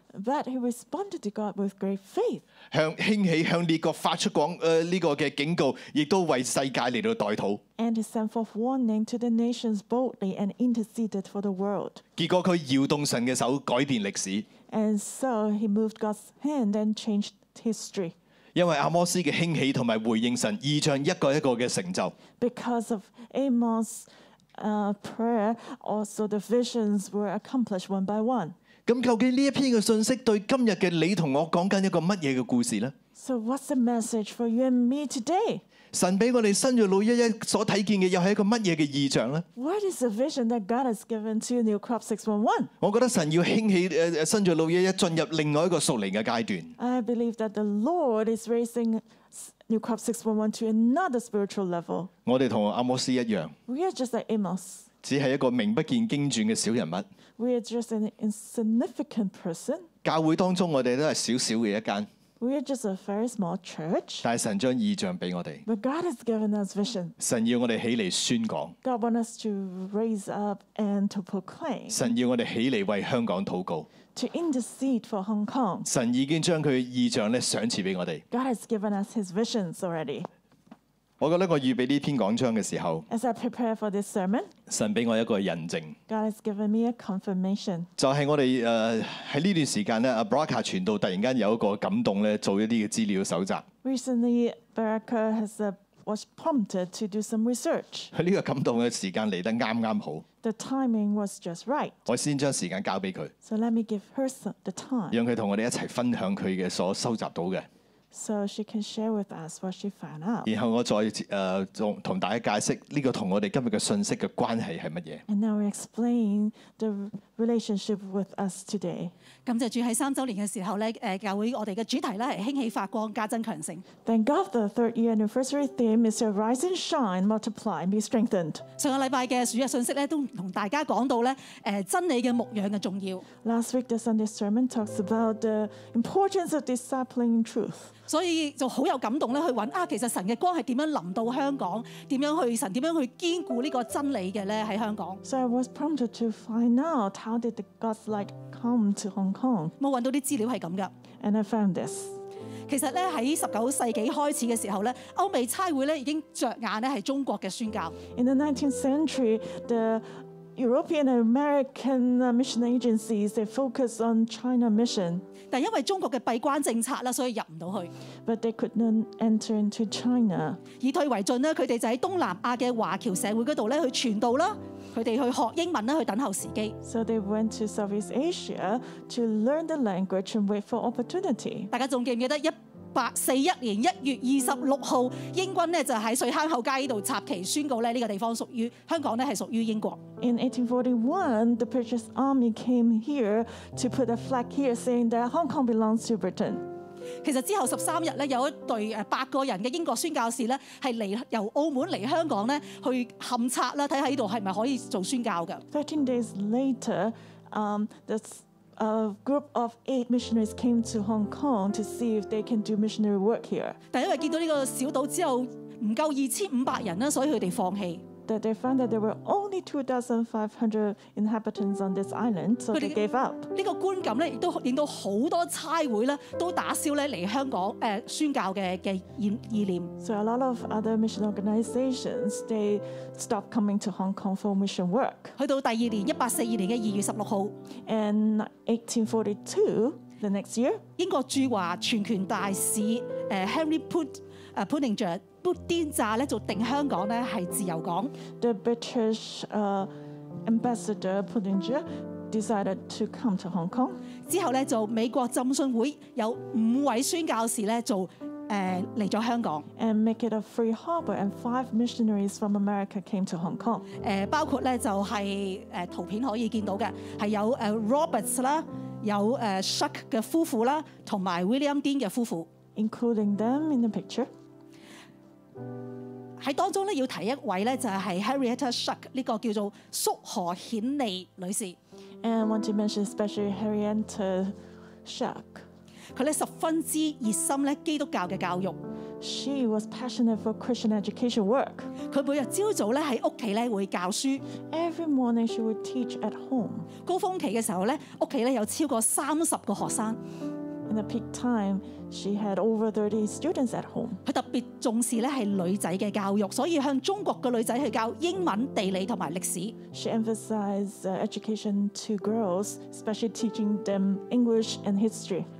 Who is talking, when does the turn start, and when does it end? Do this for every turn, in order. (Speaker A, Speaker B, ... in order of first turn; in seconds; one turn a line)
Speaker A: 0.1-2.4
Speaker B: 2.7-7.6
Speaker A: 7.8-12.0
Speaker B: 12.2-14.5
Speaker A: 14.7-18.1
Speaker B: 18.5-22.1
Speaker A: 22.4-28.5
Speaker B: 28.9-32.9
Speaker A: 33.1-35.6
Speaker B: 35.9-39.4
Speaker A: 39.5-42.7
Speaker B: 42.8-46.8
Speaker A: 46.8-52.1
Speaker B: 52.2-53.5
Speaker A: 53.7-54.9
Speaker B: 55.0-57.1
Speaker A: 57.4-59.9
Speaker B: 60.0-62.1
Speaker A: 62.4-64.2
Speaker B: 64.2-65.6
Speaker A: 65.7-67.2
Speaker B: 67.2-68.8
Speaker A: 68.8-72.1
Speaker B: 71.9-73.9
Speaker A: 74.1-75.8
Speaker B: 75.8-78.2
Speaker A: 78.3-80.3
Speaker B: 81.2-83.0
Speaker A: 83.1-84.5
Speaker B: 84.7-86.0
Speaker A: 86.1-87.9
Speaker B: 88.0-93.6
Speaker A: 93.8-98.1
Speaker B: 98.1-100.2
Speaker A: 100.4-102.0
Speaker B: 102.1-103.3
Speaker A: 103.4-105.2
Speaker B: 105.1-107.7
Speaker A: 108.1-110.5
Speaker B: 110.5-115.2
Speaker A: 115.3-119.1
Speaker C: 119.5-123.8
Speaker A: 124.0-128.6
Speaker C: 128.8-133.2
Speaker A: 133.4-137.9
Speaker C: 138.1-145.2
Speaker A: 145.2-149.7
Speaker C: 149.8-150.9
Speaker A: 151.2-152.2
Speaker C: 152.7-157.9
Speaker A: 158.1-160.0
Speaker A: 160.6-165.2
Speaker C: 165.5-167.9
Speaker A: 168.2-170.6
Speaker C: 170.8-176.7
Speaker A: 176.8-181.7
Speaker C: 181.7-190.0
Speaker A: 190.2-196.6
Speaker C: 197.2-205.6
Speaker A: 205.7-213.8
Speaker C: 213.9-218.0
Speaker A: 218.3-223.5
Speaker C: 223.5-229.9
Speaker A: 230.0-235.3
Speaker C: 235.4-237.5
Speaker A: 237.8-240.8
Speaker C: 241.0-248.1
Speaker A: 248.4-249.9
Speaker A: 250.4-254.0
Speaker C: 254.2-259.6
Speaker A: 259.8-263.9
Speaker C: 264.0-272.5
Speaker A: 272.8-274.3
Speaker C: 276.4-281.8
Speaker A: 282.2-285.6
Speaker C: 286.1-288.8
Speaker A: 289.2-291.9
Speaker C: 292.1-294.4
Speaker A: 294.7-296.9
Speaker C: 297.0-300.2
Speaker A: 300.9-304.2
Speaker C: 304.2-309.7
Speaker A: 309.9-315.5